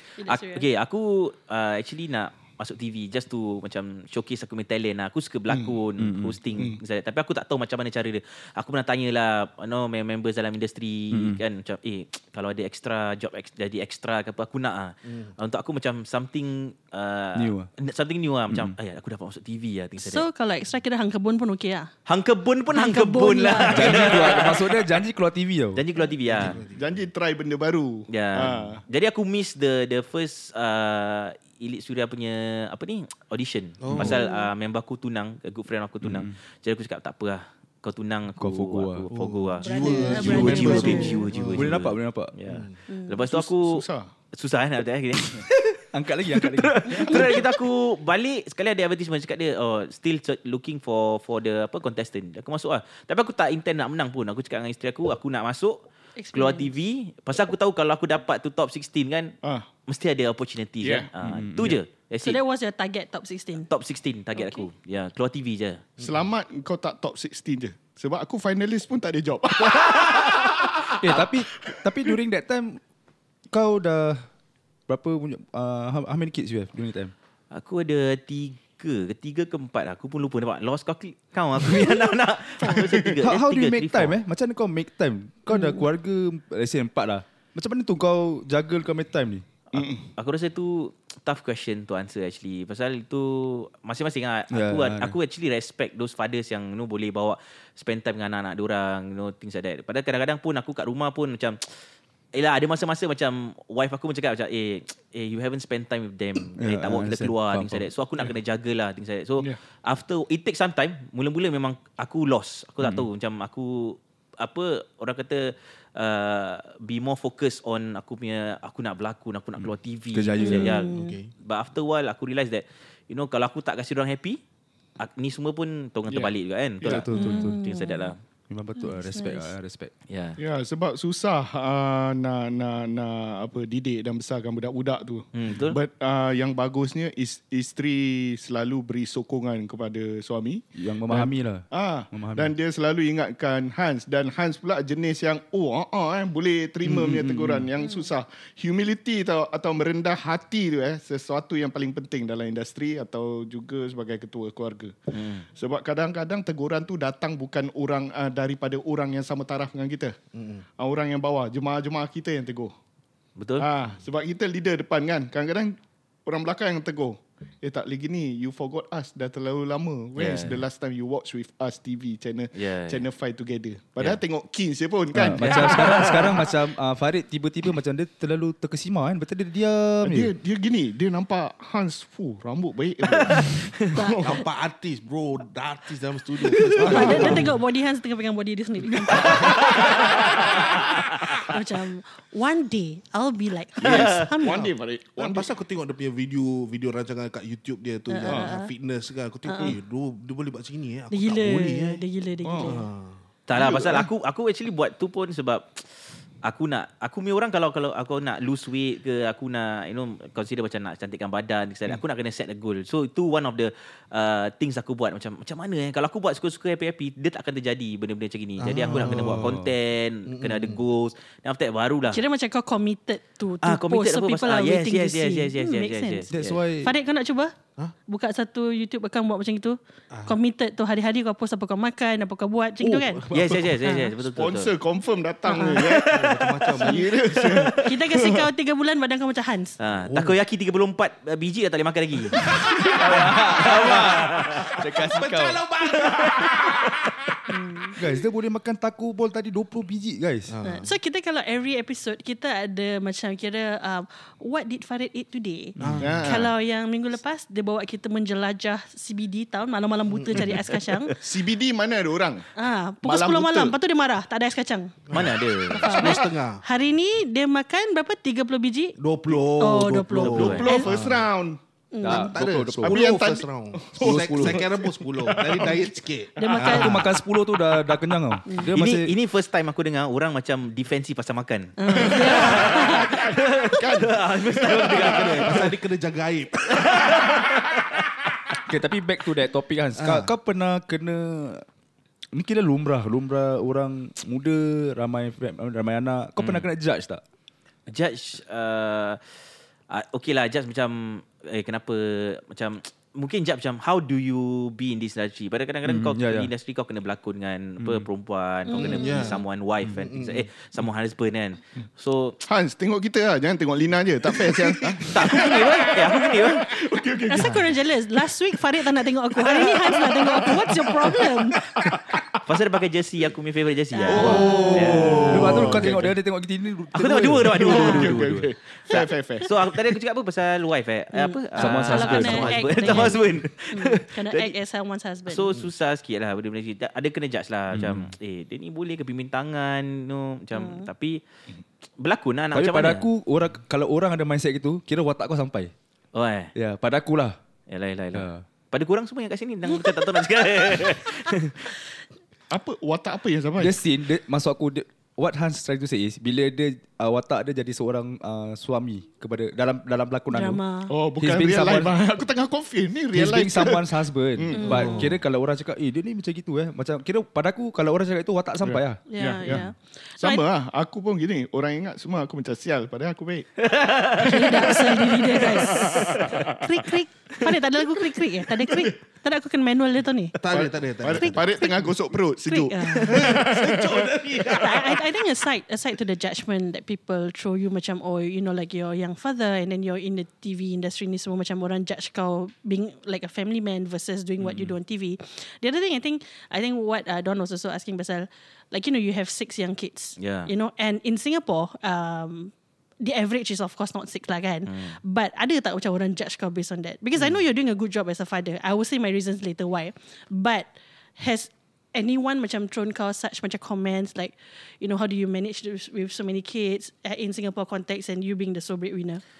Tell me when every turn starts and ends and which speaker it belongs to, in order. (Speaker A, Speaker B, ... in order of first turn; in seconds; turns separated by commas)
Speaker A: 0.2-0.6, Speaker B: 0.2-20.2, Speaker C: 6.0-6.4, Speaker C: 11.1-11.4, Speaker C: 17.3-17.7, Speaker A: 20.0-21.9, Speaker B: 22.1-24.8, Speaker A: 22.7-24.4, Speaker C: 23.7-25.8, Speaker B: 25.7-26.6, Speaker D: 26.2-26.9, Speaker E: 26.7-28.8, Speaker B: 28.1-45.6, Speaker D: 33.8-34.2, Speaker A: 34.0-34.5, Speaker C: 36.0-36.3, Speaker C: 38.4-39.1, Speaker D: 39.1-41.7, Speaker A: 39.6-41.3, Speaker C: 40.4-40.8, Speaker C: 41.5-42.3, Speaker D: 42.5-42.8, Speaker A: 42.9-43.2, Speaker E: 43.2-44.1, Speaker C: 45.9-47.4, Speaker B: 46.3-55.8, Speaker A: 46.9-47.4, Speaker A: 56.2-56.7, Speaker B: 56.3-59.4, Speaker B: 59.9-62.4, Speaker E: 60.8-61.1, Speaker C: 61.2-61.8, Speaker A: 62.2-63.7, Speaker B: 63.7-65.9, Speaker A: 64.3-64.7, Speaker E: 66.0-71.3, Speaker C: 71.0-72.8, Speaker C: 73.5-74.2, Speaker C: 74.9-77.1, Speaker B: 77.5-84.2, Speaker E: 82.6-83.1, Speaker C: 83.2-89.5, Speaker A: 85.5-85.8, Speaker B: 89.7-101.6, Speaker E: 89.7-90.1, Speaker C: 94.5-95.2, Speaker B: 102.3-124.4, Speaker C: 106.6-107.9, Speaker C: 120.1-120.8, Speaker A: 120.4-121.2, Speaker D: 120.9-121.3, Speaker B: 125.0-128.2, Speaker E: 126.8-127.1, Speaker C: 126.8-127.6, Speaker A: 127.1-128.1, Speaker C: 128.5-129.9, Speaker A: 128.8-129.5, Speaker B: 130.1-130.4, Speaker E: 130.4-154.9, Speaker B: 135.3-135.8, Speaker C: 140.8-142.5, Speaker C: 146.8-147.7, Speaker A: 147.8-148.1, Speaker B: 155.1-155.4, Speaker E: 155.5-160.2, Speaker D: 160.3-160.6, Speaker E: 160.8-162.7, Speaker B: 163.4-163.7, Speaker E: 163.6-176.0, Speaker B: 170.2-170.6, Speaker B: 172.5-173.0, Speaker C: 175.1-180.3, Speaker B: 175.4-176.5, Speaker E: 180.0-184.3, Speaker B: 183.1-183.9, Speaker A: 183.9-184.2, Speaker D: 184.1-187.5, Speaker E: 186.7-187.5, Speaker A: 186.8-190.0, Speaker E: 189.2-190.3, Speaker B: 189.3-189.9, Speaker A: 191.3-194.7, Speaker D: 193.8-194.3, Speaker E: 194.0-195.5, Speaker D: 195.2-202.0, Speaker A: 198.1-198.7, Speaker A: 199.4-199.8, Speaker A: 201.1-202.8, Speaker E: 202.4-202.7, Speaker D: 202.6-203.2, Speaker B: 203.5-222.2, Speaker E: 203.5-204.1, Speaker D: 218.6-219.6, Speaker C: 219.0-219.7, Speaker D: 220.2-220.8, Speaker A: 222.1-227.6, Speaker B: 223.6-226.6, Speaker C: 226.3-226.9, Speaker A: 228.1-233.3, Speaker D: 232.8-233.8, Speaker B: 233.3-234.7, Speaker A: 233.8-234.1, Speaker E: 234.3-238.5, Speaker A: 235.5-235.9, Speaker B: 235.8-236.6, Speaker D: 236.1-237.1, Speaker A: 236.8-237.1, Speaker A: 237.7-239.8, Speaker B: 239.8-242.4, Speaker D: 240.0-240.3, Speaker D: 242.3-243.3, Speaker C: 242.9-245.6, Speaker B: 243.0-244.8, Speaker D: 244.0-246.7, Speaker B: 246.0-246.5, Speaker A: 247.5-247.9, Speaker C: 247.9-250.5, Speaker D: 250.5-250.9, Speaker A: 250.6-261.1, Speaker D: 255.8-256.4, Speaker E: 256.0-256.5, Speaker D: 260.3-260.6, Speaker E: 261.1-262.5, Speaker A: 262.6-265.0, Speaker E: 263.0-263.7, Speaker D: 265.1-266.6, Speaker B: 265.1-265.9, Speaker E: 265.7-266.3, Speaker A: 265.7-269.0, Speaker D: 269.0-271.3, Speaker A: 269.5-270.9, Speaker B: 270.2-270.7, Speaker E: 270.3-271.6, Speaker A: 271.9-272.4, Speaker C: 272.0-273.0, Speaker D: 272.1-277.1, Speaker E: 272.8-276.7, Speaker C: 274.0-274.7, Speaker A: 276.4-277.1, Speaker C: 276.6-279.1, Speaker B: 278.7-285.7, Speaker A: 281.8-283.2, Speaker E: 281.9-285.7, Speaker D: 284.9-287.2, Speaker B: 286.7-287.8, Speaker C: 288.7-291.6, Speaker D: 290.0-290.3, Speaker C: 292.3-297.2, Speaker B: 296.4-296.7, Speaker B: 297.9-299.2, Speaker B: 299.9-312.4, Speaker C: 305.8-306.5, Speaker C: 307.8-308.1, Speaker A: 308.7-309.4, Speaker D: 308.8-309.4, Speaker D: 309.9-310.5, Speaker E: 312.4-317.8, Speaker B: 315.0-316.7, Speaker A: 317.3-321.7, Speaker E: 319.3-322.4, Speaker B: 322.4-325.9, Speaker A: 323.9-325.4, Speaker E: 324.1-326.1, Speaker D: 324.2-325.8, Speaker C: 325.3-328.2, Speaker B: 326.9-334.5, Speaker E: 327.5-329.5, Speaker A: 327.8-328.1, Speaker A: 328.9-329.5, Speaker A: 331.1-335.5, Speaker C: 331.6-333.2, Speaker B: 335.3-341.2, Speaker C: 337.7-338.1, Speaker A: 340.5-340.9, Speaker B: 342.0-343.1, Speaker C: 342.5-345.7, Speaker B: 346.1-346.5, Speaker C: 346.5-347.4, Speaker B: 347.7-351.7, Speaker C: 348.1-348.4, Speaker A: 349.7-351.3, Speaker E: 352.5-353.8, Speaker C: 353.6-360.6, Speaker A: 360.3-360.9, Speaker E: 360.9-365.0, Speaker C: 361.2-361.9, Speaker C: 363.1-369.6, Speaker A: 364.5-365.0, Speaker D: 364.7-365.2, Speaker E: 368.6-369.7, Speaker A: 369.1-370.4, Speaker E: 370.2-376.8, Speaker B: 373.6-374.9, Speaker A: 374.2-380.4, Speaker B: 375.9-376.2, Speaker D: 380.4-381.9, Speaker E: 380.5-384.6, Speaker A: 381.0-381.9, Speaker A: 382.4-383.5, Speaker D: 383.0-385.0, Speaker A: 384.6-419.2, Speaker B: 394.4-394.7, Speaker B: 400.2-400.5, Speaker B: 404.7-405.0